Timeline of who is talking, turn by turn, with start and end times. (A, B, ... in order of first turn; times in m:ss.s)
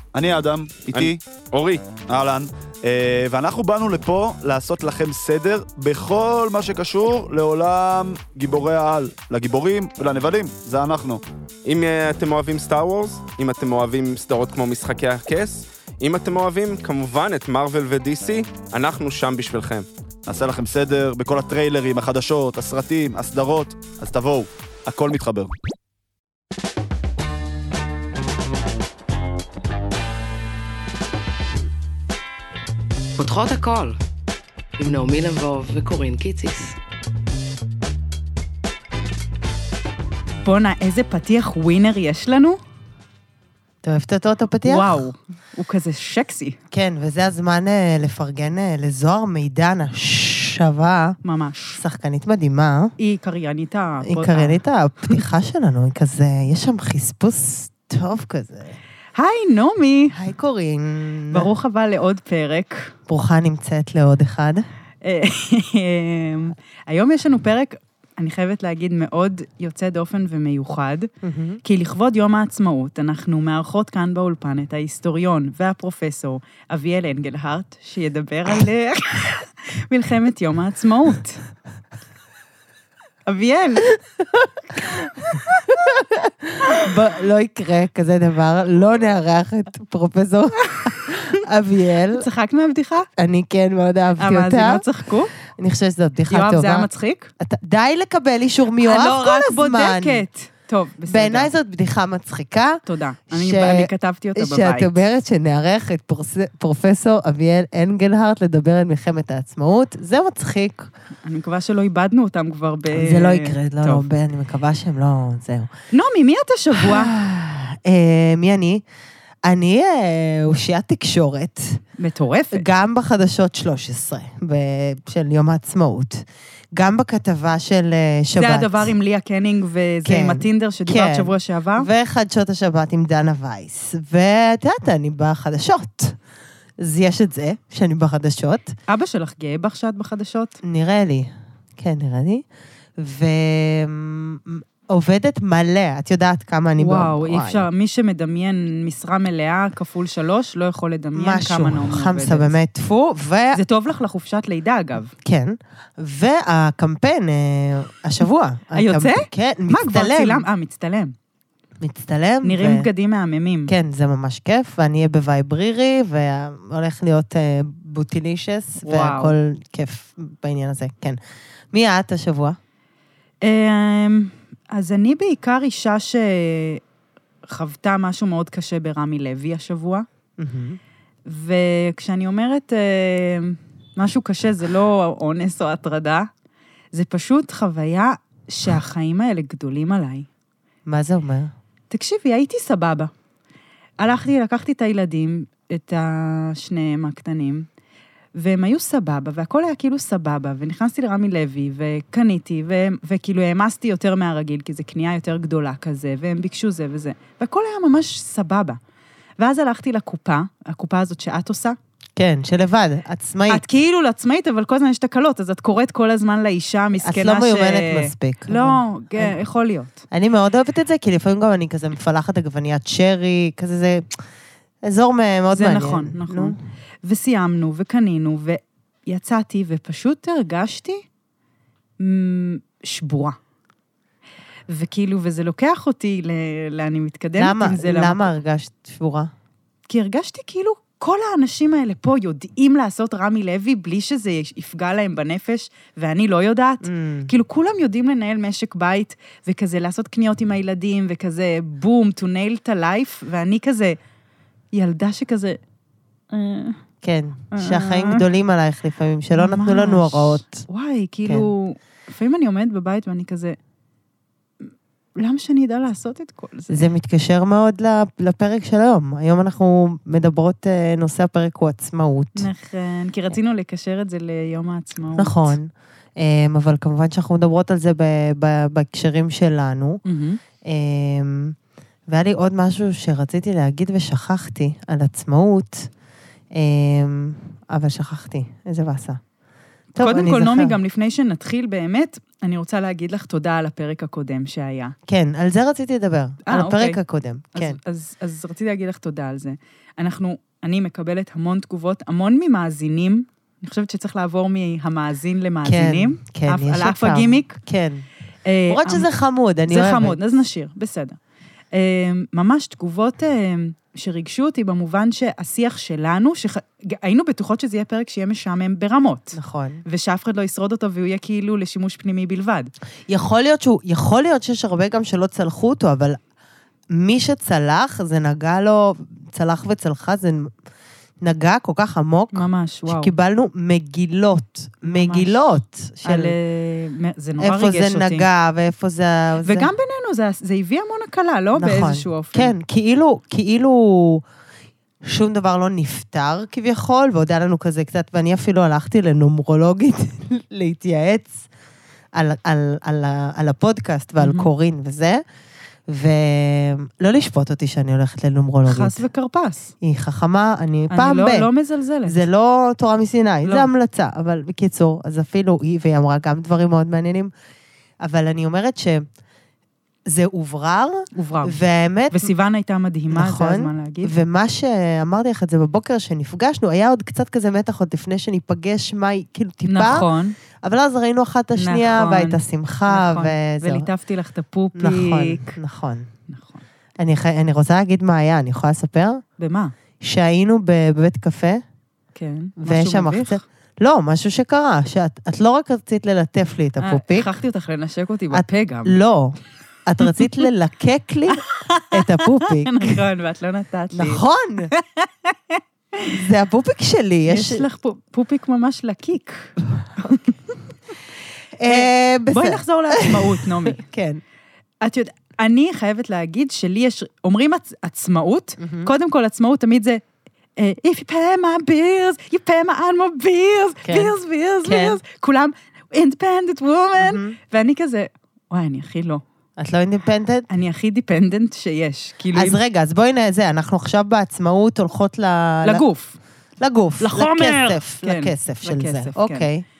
0:00.1-0:01.2 A
0:00.9-0:01.8 B
0:02.1-0:11.2 A
0:11.6-0:19.9 B
0:20.3-0:25.5 A
0:33.2-0:34.0 C
0:34.8-0:36.8 C
0:40.4-0:42.6 D
0:43.8-0:45.0 E
0:44.6-0:46.6 D
0:46.7-0:51.2 E
0:51.2-0:51.8 D
0:51.8-0:52.9 E
0:53.0-0:54.6 D
0:54.0-0:58.8 E
0:59.2-1:00.1 D
1:00.1-1:01.5 E
1:01.3-1:02.9 D
1:03.1-1:04.7 E
1:05.0-1:11.1 D
1:11.2-1:11.6 E
1:11.6-1:21.4 D
1:23.3-1:24.0 D
1:25.4-1:32.3 E
1:32.1-1:33.1 D
1:33.2-1:34.8 E
1:34.2-1:35.3 D
1:35.4-1:40.2 E
1:36.3-1:37.3 D
1:38.8-1:41.5 D
1:41.1-1:50.9 E
1:42.9-1:44.9 D
1:51.2-1:54.0 D
1:52.9-1:55.7 E
1:55.9-1:57.1 D
1:56.8-1:58.8 E
1:59.4-2:01.8 E
2:02.0-2:02.7 D
2:02.5-2:08.9 E
2:08.4-2:11.9 D
2:10.0-2:16.2 E
2:16.8-2:18.8 E
2:18.9-2:20.6 D
2:20.6-2:22.4 E
2:23.0-2:27.7 E
2:26.8-2:32.5 D
2:31.1-2:33.6 E
2:33.5-2:35.1 D
2:35.2-2:40.5 E
2:38.8-2:41.1 D
2:41.8-2:42.9 E
2:42.4-2:43.7 D
2:43.7-2:51.2 E
2:48.8-2:49.4 D
2:51.7-2:52.6 E
2:53.4-2:56.8 D
2:57.5-3:00.1 D
3:00.4-3:00.8 E
3:01.3-3:06.3 D
3:06.9-3:10.3 D
3:10.9-3:11.5 E
3:11.9-3:13.1 D
3:14.0-3:17.7 D
3:18.4-3:28.8 D
3:29.4-3:31.8 D
3:32.2-3:33.6 E
3:33.5-3:40.0 D
3:37.0-3:39.3 E
3:40.1-3:44.2 E
3:44.8-3:46.6 E
3:45.5-3:51.0 D
3:52.0-3:53.4 D
3:54.7-3:58.2 D
3:57.4-3:59.3 E
3:59.9-4:14.0 D
4:06.8-4:07.3 E
4:14.7-4:15.6 D
4:16.3-4:16.8 D
4:17.0-4:20.7 E
4:17.5-4:18.2 D
4:19.4-4:23.6 D
4:25.2-4:26.8 D
4:26.7-4:32.5 E
4:32.4-4:35.6 D
4:35.2-4:40.0 E
4:40.1-4:40.4 D
4:40.6-4:41.6 E
4:42.1-4:45.9 E
4:46.5-4:49.2 E
4:50.0-4:50.8 E
4:50.0-4:55.0 D
4:55.1-4:57.8 E
4:56.5-4:57.0 D
4:57.5-5:07.6 D
5:05.6-5:08.0 E
5:08.4-5:09.1 D
5:08.7-5:10.4 E
5:09.7-5:11.2 D
5:11.7-5:22.7 D
5:19.3-5:19.8 E
5:23.1-5:26.2 E
5:26.9-5:30.5 E
5:31.2-5:36.4 E
5:32.3-5:33.1 D
5:34.8-5:38.3 D
5:37.4-5:39.7 E
5:39.4-5:42.6 D
5:41.6-5:44.2 E
5:45.0-5:51.4 E
5:52.1-5:55.2 E
5:54.2-5:54.5 D
5:55.9-5:59.0 E
5:58.7-5:59.7 D
5:59.8-6:01.5 E
6:00.9-6:02.2 D
6:02.0-6:07.3 E
6:03.4-6:03.7 D
6:08.0-6:09.1 E
6:10.1-6:12.3 E
6:11.1-6:11.6 D
6:12.1-6:14.1 D
6:13.1-6:20.1 E
6:19.7-6:20.4 D
6:20.6-6:23.9 E
6:21.6-6:25.6 D
6:24.8-6:26.1 E
6:26.3-6:26.6 D
6:27.0-6:29.2 E
6:29.4-6:29.7 D
6:30.0-6:31.6 E
6:32.2-6:33.4 D
6:32.6-6:37.3 E
6:36.8-6:39.0 D
6:38.3-6:43.0 E
6:41.3-6:46.1 D
6:43.9-6:44.7 E
6:46.1-6:47.6 E
6:47.3-6:50.3 D
6:51.6-6:54.2 E
6:51.7-6:53.8 D
6:54.8-7:00.0 D
6:58.6-6:58.9 E
7:00.6-7:09.2 D
7:03.8-7:05.0 E
7:07.0-7:07.4 E
7:09.6-7:10.5 E
7:10.5-7:12.6 D
7:12.3-7:15.8 E
7:15.6-7:16.2 D
7:16.6-7:19.6 E
7:17.0-7:19.5 D